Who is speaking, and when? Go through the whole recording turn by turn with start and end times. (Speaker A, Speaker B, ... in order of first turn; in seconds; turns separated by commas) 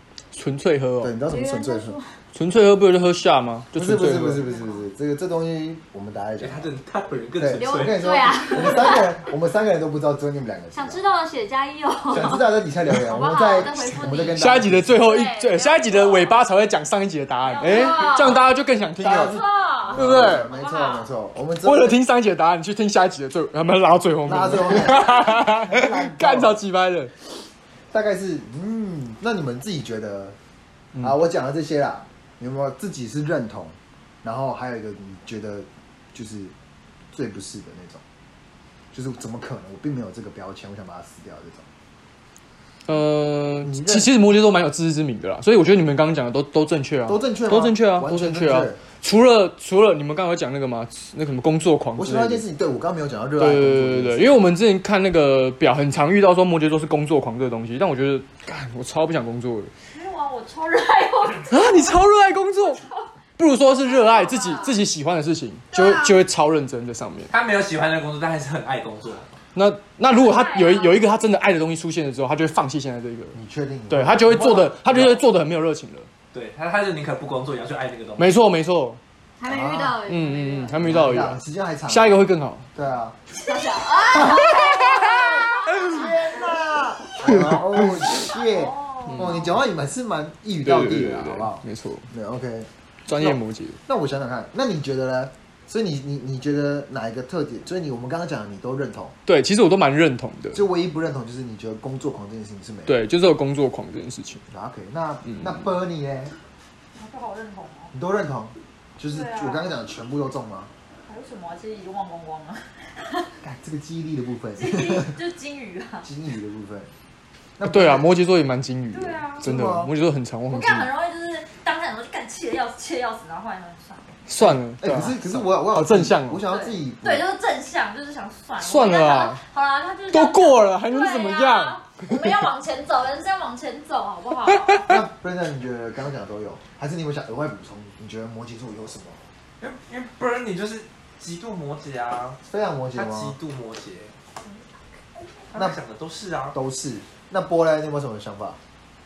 Speaker A: 0.3-1.2, Speaker B: 1.0-2.0, Speaker C: 1.3-2.1, Speaker A: 2.3-4.4, Speaker B: 3.7-6.7, Speaker C: 4.5-4.8, Speaker D: 6.4-8.2, Speaker B: 7.4-11.0, Speaker C: 7.6-9.2, Speaker C: 10.7-16.4, Speaker B: 12.1-15.1, Speaker A: 14.4-20.5, Speaker C: 17.4-18.5, Speaker B: 19.0-22.0, Speaker C: 19.0-21.1, Speaker A: 21.6-27.1, Speaker B: 24.3-26.6, Speaker B: 27.9-30.4, Speaker B: 31.0-36.5, Speaker B: 37.1-38.0, Speaker B: 38.9-41.7, Speaker A: 42.9-52.4, Speaker B: 43.6-44.1, Speaker B: 47.1-48.8, Speaker B: 52.0-54.5, Speaker A: 53.4-59.7, Speaker C: 59.9-62.0, Speaker A: 61.5-62.8, Speaker C: 62.6-63.1, Speaker A: 63.4-67.3, Speaker C: 63.9-64.7, Speaker E: 65.7-66.2, Speaker D: 67.3-69.3, Speaker A: 69.5-73.4, Speaker C: 70.1-71.0, Speaker B: 73.3-75.2, Speaker A: 73.9-76.1, Speaker D: 76.3-78.3, Speaker A: 78.2-79.0, Speaker E: 79.4-80.9, Speaker B: 79.5-80.0, Speaker A: 80.0-82.7, Speaker B: 80.8-82.2, Speaker B: 82.8-83.2, Speaker E: 83.4-85.7, Speaker B: 84.1-99.2, Speaker C: 84.3-86.0, Speaker A: 87.2-88.0, Speaker C: 88.2-89.6, Speaker A: 89.1-89.4, Speaker A: 90.6-92.1, Speaker A: 93.1-93.8, Speaker A: 99.3-100.6, Speaker B: 100.5-103.0, Speaker A: 102.9-104.4, Speaker B: 104.5-106.3, Speaker A: 105.3-105.6, Speaker C: 107.0-107.9, Speaker B: 107.9-110.7, Speaker C: 109.1-109.7, Speaker C: 111.1-113.3, Speaker B: 113.4-115.2, Speaker C: 114.6-116.1, Speaker B: 116.0-116.9, Speaker B: 117.6-118.1, Speaker A: 117.7-120.9, Speaker C: 118.9-119.5, Speaker B: 119.4-119.9, Speaker C: 120.5-124.1, Speaker A: 124.3-126.4, Speaker B: 124.4-127.3, Speaker C: 126.5-134.9, Speaker A: 128.6-129.4, Speaker A: 130.1-132.3, Speaker B: 134.9-139.2, Speaker D: 139.6-142.4, Speaker B: 142.4-143.4, Speaker D: 142.9-144.1, Speaker D: 145.5-146.6, Speaker B: 146.5-148.6